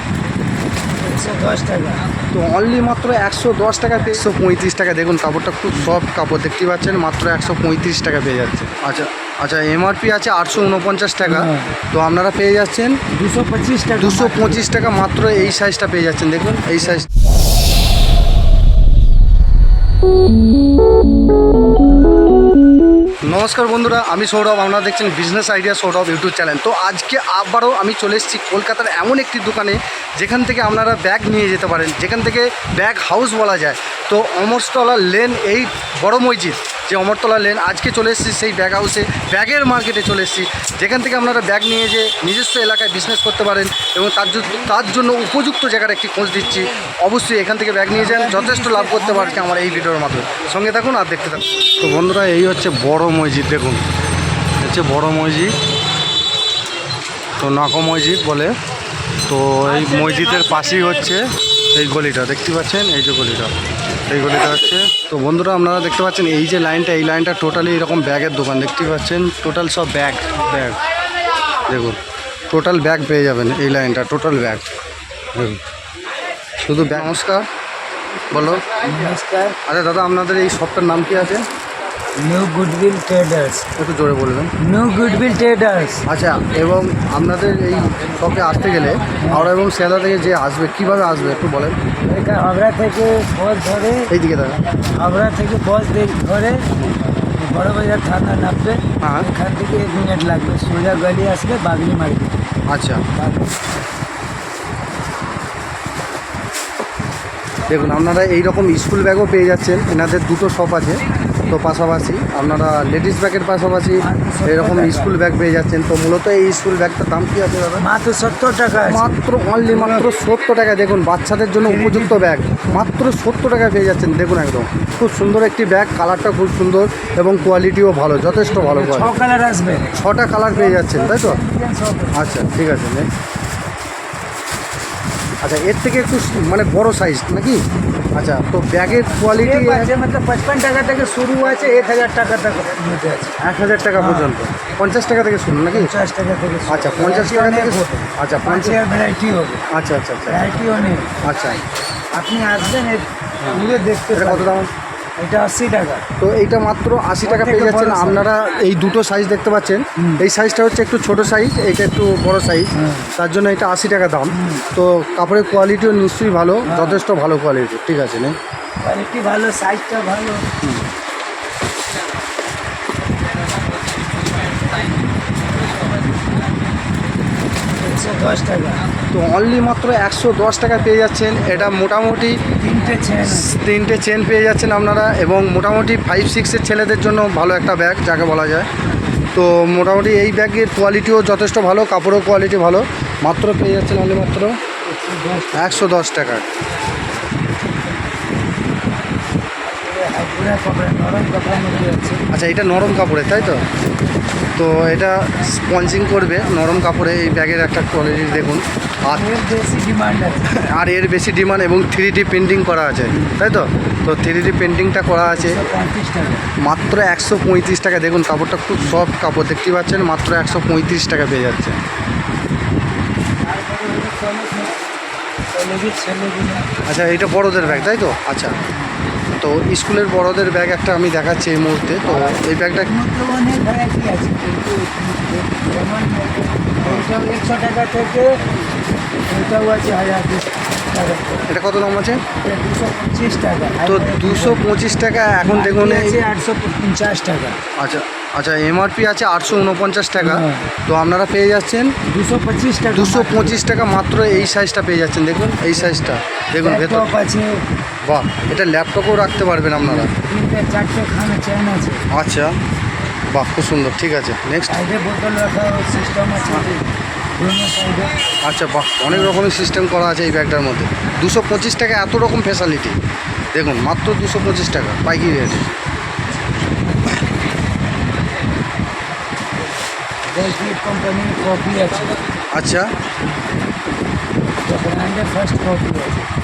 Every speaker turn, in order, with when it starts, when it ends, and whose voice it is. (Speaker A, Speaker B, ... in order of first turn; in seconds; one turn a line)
Speaker A: 1.0-2.0
Speaker B: 2.3-13.0
Speaker A: 11.2-11.7
Speaker A: 13.1-14.7
Speaker B: 13.9-17.1
Speaker B: 23.3-53.8
Speaker A: 47.9-49.5
Speaker B: 54.6-55.5
Speaker B: 57.4-58.5
Speaker B: 59.2-63.5
Speaker B: 64.1-70.8
Speaker B: 71.7-72.0
Speaker B: 72.5-74.6
Speaker B: 75.3-75.6
Speaker B: 76.6-77.5
Speaker B: 78.3-78.7
Speaker A: 78.8-79.6
Speaker B: 79.6-81.4
Speaker A: 82.2-83.7
Speaker B: 83.8-84.5
Speaker A: 84.6-86.0
Speaker B: 86.1-91.8
Speaker A: 89.2-89.5
Speaker A: 92.0-94.1
Speaker B: 94.1-94.6
Speaker A: 95.0-96.7
Speaker A: 97.3-102.4
Speaker B: 99.0-99.3
Speaker B: 102.7-103.0
Speaker A: 103.2-103.5
Speaker B: 107.7-117.8
Speaker A: 114.0-115.2
Speaker A: 117.8-120.1
Speaker B: 118.8-129.2
Speaker A: 121.6-122.3
Speaker A: 128.3-132.4
Speaker B: 129.9-131.4
Speaker B: 132.1-133.1
Speaker B: 135.4-137.6
Speaker B: 138.2-139.9
Speaker A: 139.2-143.3
Speaker B: 143.4-145.9
Speaker A: 143.9-144.3
Speaker A: 145.7-149.6
Speaker B: 146.7-148.8
Speaker B: 149.7-150.4
Speaker A: 150.3-151.1
Speaker B: 151.2-151.6
Speaker A: 152.1-154.5
Speaker B: 154.1-154.7
Speaker A: 155.2-156.0
Speaker B: 156.2-168.4
Speaker A: 157.2-158.3
Speaker A: 159.9-160.2
Speaker A: 162.7-163.1
Speaker A: 164.3-164.7
Speaker A: 166.7-167.0
Speaker A: 168.8-170.5
Speaker B: 170.6-170.9
Speaker A: 177.7-178.8
Speaker B: 179.1-182.4
Speaker A: 182.6-183.6
Speaker B: 183.2-188.7
Speaker B: 189.3-194.6
Speaker A: 194.8-195.9
Speaker B: 195.5-196.5
Speaker A: 199.7-202.2
Speaker B: 202.3-203.6
Speaker B: 204.5-209.2
Speaker A: 209.1-210.5
Speaker B: 210.5-215.6
Speaker A: 213.1-213.4
Speaker A: 215.3-216.4
Speaker B: 216.6-221.8
Speaker A: 218.8-219.0
Speaker A: 223.4-224.8
Speaker A: 225.5-226.8
Speaker B: 226.8-228.6
Speaker B: 229.4-232.9
Speaker A: 232.1-238.4
Speaker A: 239.3-241.5
Speaker B: 241.5-242.2
Speaker A: 242.2-247.6
Speaker B: 243.8-246.2
Speaker B: 247.8-251.9
Speaker A: 250.2-250.7
Speaker A: 252.1-253.6
Speaker B: 252.9-257.2
Speaker A: 255.8-256.0
Speaker A: 256.6-257.6
Speaker B: 258.0-260.1
Speaker A: 259.8-262.1
Speaker B: 262.1-262.5
Speaker B: 263.3-264.8
Speaker A: 264.6-266.9
Speaker A: 267.4-268.1
Speaker B: 268.4-272.9
Speaker A: 269.1-269.4
Speaker B: 273.5-275.7
Speaker A: 280.3-282.2
Speaker B: 282.5-282.9
Speaker A: 284.6-286.3